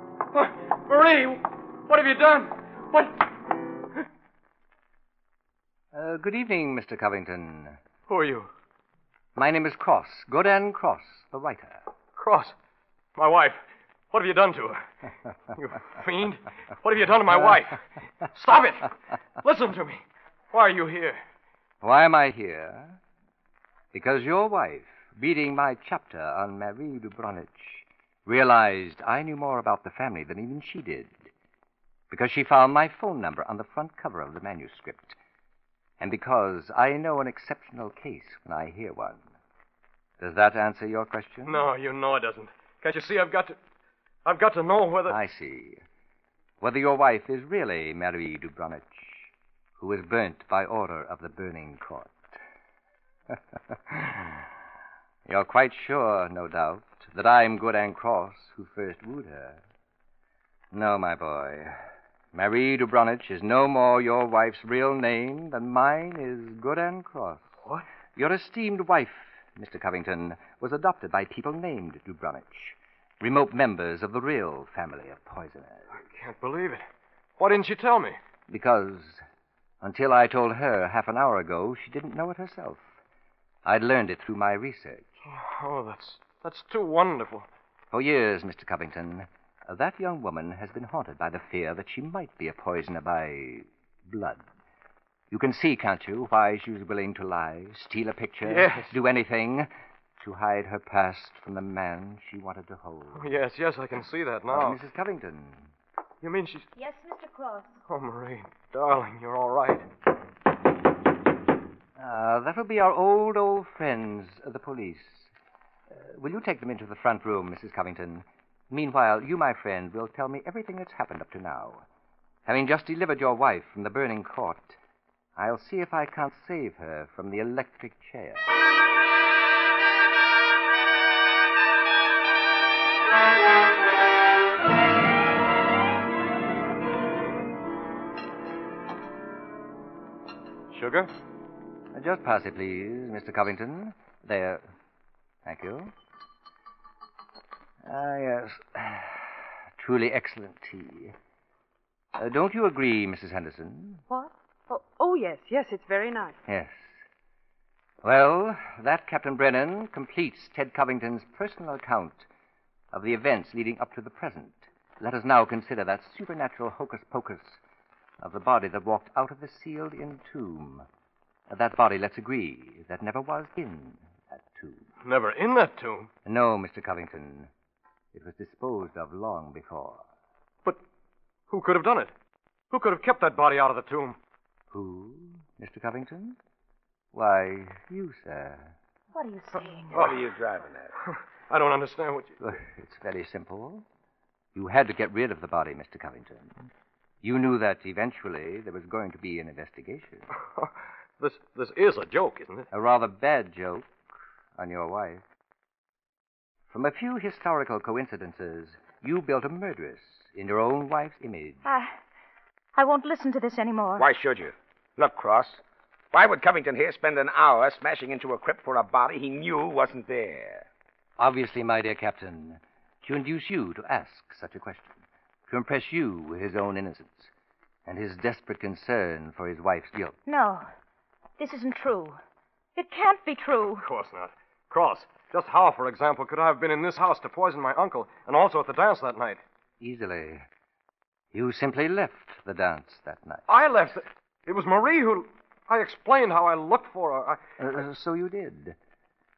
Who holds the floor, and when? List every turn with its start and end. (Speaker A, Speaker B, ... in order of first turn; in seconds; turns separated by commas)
Speaker A: 0.3-3.3, Speaker B: 5.9-7.8, Speaker A: 8.1-8.5, Speaker B: 9.3-11.9, Speaker A: 12.2-12.5, Speaker A: 13.2-14.8, Speaker A: 15.5-17.8, Speaker A: 18.3-21.2, Speaker B: 21.8-23.0, Speaker B: 23.9-31.3, Speaker B: 32.1-35.2, Speaker B: 36.0-39.3, Speaker B: 40.2-41.6, Speaker A: 41.5-43.6, Speaker A: 44.2-45.2, Speaker B: 45.1-45.8, Speaker B: 46.6-52.4, Speaker B: 53.3-54.4, Speaker B: 55.2-59.6, Speaker B: 60.7-61.8, Speaker B: 62.3-67.5, Speaker B: 68.1-75.9, Speaker A: 76.0-76.8, Speaker A: 77.4-78.2, Speaker B: 78.5-79.2, Speaker B: 79.8-82.9, Speaker B: 83.6-85.2, Speaker A: 85.2-87.5, Speaker B: 87.9-94.4, Speaker B: 95.3-103.3, Speaker A: 98.4-99.0, Speaker A: 103.1-104.8, Speaker B: 104.5-105.7, Speaker A: 106.2-106.7, Speaker C: 106.8-107.8, Speaker A: 107.9-109.8, Speaker B: 112.0-115.3, Speaker B: 115.9-121.8, Speaker B: 122.5-124.8, Speaker B: 125.3-128.4, Speaker A: 140.7-141.1, Speaker B: 141.9-144.6, Speaker B: 145.4-145.9, Speaker B: 147.8-151.1, Speaker B: 152.1-154.0, Speaker D: 154.1-156.4, Speaker B: 156.4-157.0, Speaker B: 158.0-162.3, Speaker B: 162.9-167.6, Speaker B: 168.2-170.9, Speaker B: 171.5-174.9, Speaker A: 175.0-176.1, Speaker B: 176.2-177.5, Speaker B: 178.1-180.1, Speaker A: 181.5-182.1, Speaker A: 182.7-184.2, Speaker B: 184.7-186.4, Speaker B: 187.1-188.7, Speaker C: 189.1-190.0, Speaker E: 189.9-190.9, Speaker A: 189.9-190.2, Speaker A: 191.5-192.4, Speaker B: 192.4-193.8, Speaker B: 194.5-196.7, Speaker B: 197.2-200.3, Speaker A: 200.5-202.7, Speaker B: 202.7-203.9, Speaker B: 204.6-205.2, Speaker B: 206.7-211.6, Speaker C: 211.6-211.9, Speaker C: 212.8-214.1, Speaker E: 214.0-220.7, Speaker B: 221.2-227.3, Speaker B: 227.8-230.2, Speaker C: 230.2-230.7, Speaker C: 231.4-232.2, Speaker C: 232.8-233.8, Speaker A: 233.8-239.4, Speaker B: 239.8-240.5, Speaker B: 241.3-243.4, Speaker A: 243.5-247.4, Speaker B: 247.6-248.8